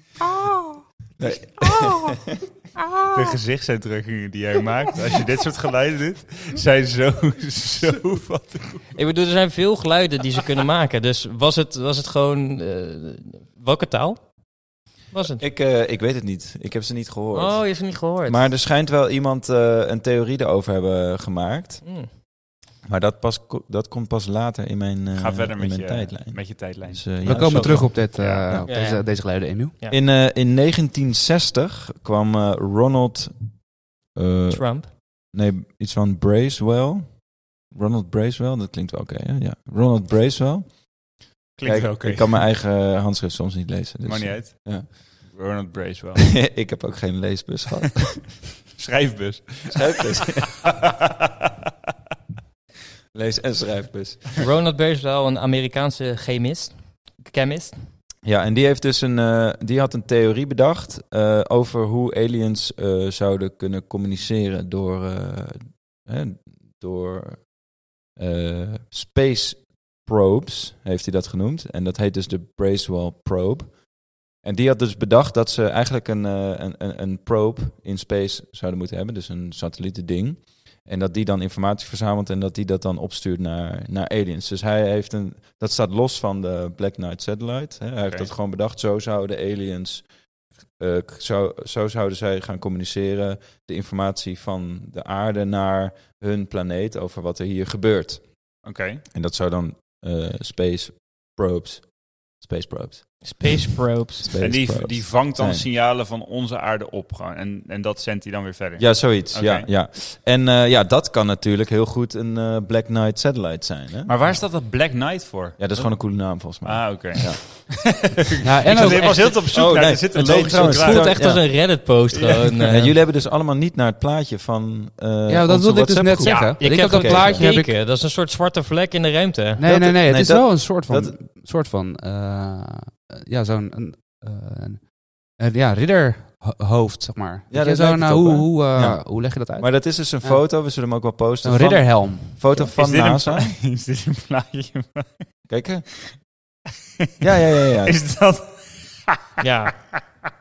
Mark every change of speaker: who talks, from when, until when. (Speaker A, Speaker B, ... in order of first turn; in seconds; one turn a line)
Speaker A: 1.2-2.3
Speaker B: 3.1-8.9
Speaker C: 8.9-15.4
Speaker A: 15.4-22.1
Speaker C: 17.3-18.5
Speaker C: 21.8-22.1
Speaker A: 22.8-28.7
Speaker B: 25.1-28.5
Speaker D: 27.2-29.7
Speaker C: 28.6-30.0
Speaker A: 29.9-33.6
Speaker A: 34.1-44.9
Speaker C: 34.5-34.9
Speaker B: 41.6-42.4
Speaker B: 44.0-46.3
Speaker A: 46.2-48.5
Speaker B: 48.7-51.0
Speaker A: 49.7-50.8
Speaker A: 53.1-54.4
Speaker C: 54.4-57.8
Speaker A: 58.2-67.5
Speaker A: 68.1-90.1
Speaker B: 88.0-88.3
Speaker A: 90.8-103.6
Speaker B: 98.6-99.0
Speaker C: 103.2-104.3
Speaker A: 104.2-105.6
Speaker B: 104.4-109.7
Speaker A: 108.8-114.3
Speaker B: 114.1-121.3
Speaker A: 115.6-118.0
Speaker D: 118.4-119.3
Speaker C: 118.7-119.4
Speaker A: 119.2-121.4
Speaker C: 120.6-122.9
Speaker B: 122.1-122.6
Speaker A: 122.7-127.5
Speaker D: 125.3-127.7
Speaker C: 126.2-129.6
Speaker D: 129.6-140.5
Speaker A: 129.6-131.2
Speaker A: 137.5-143.6
Speaker D: 141.4-142.6
Speaker B: 142.6-145.5
Speaker A: 145.5-146.2
Speaker A: 147.2-148.0
Speaker B: 147.8-149.2
Speaker C: 149.4-149.8